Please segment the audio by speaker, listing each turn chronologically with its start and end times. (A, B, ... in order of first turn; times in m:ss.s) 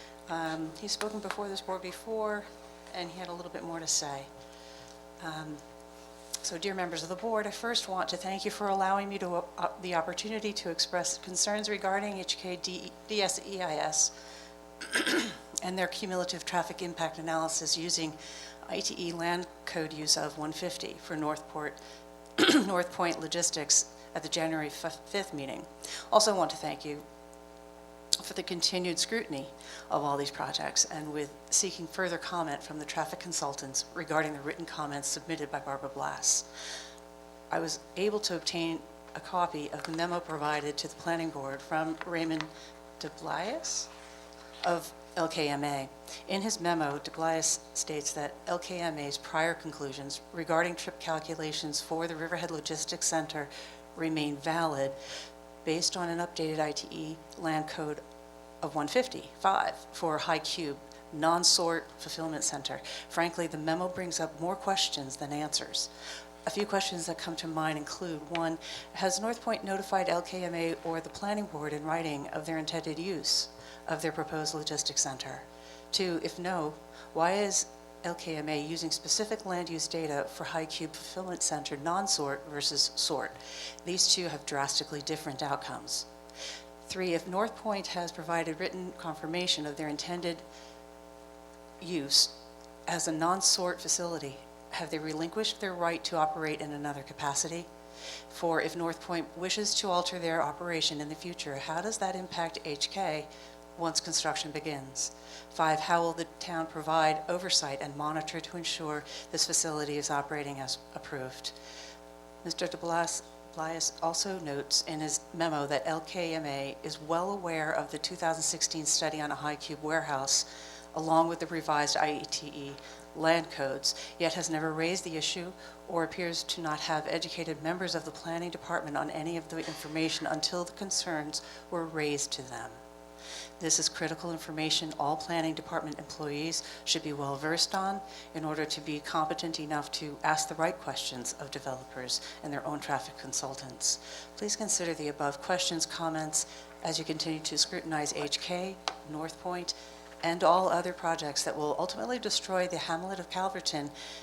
0:00.3-0:04.3 A
0:05.2-0:05.6 A
0:06.4-0:14.1 A
0:14.8-0:21.8 A
0:22.4-0:27.0 A
0:28.2-0:36.4 A
0:37.5-0:43.9 A
0:44.6-0:55.0 A
0:55.6-0:58.0 A
0:58.6-1:05.9 A
1:06.4-1:26.0 A
1:26.8-1:30.4 A
1:31.8-1:32.3 A
1:32.9-1:37.7 A
1:38.3-1:51.5 A
1:52.4-2:12.8 A
2:13.6-2:33.9 A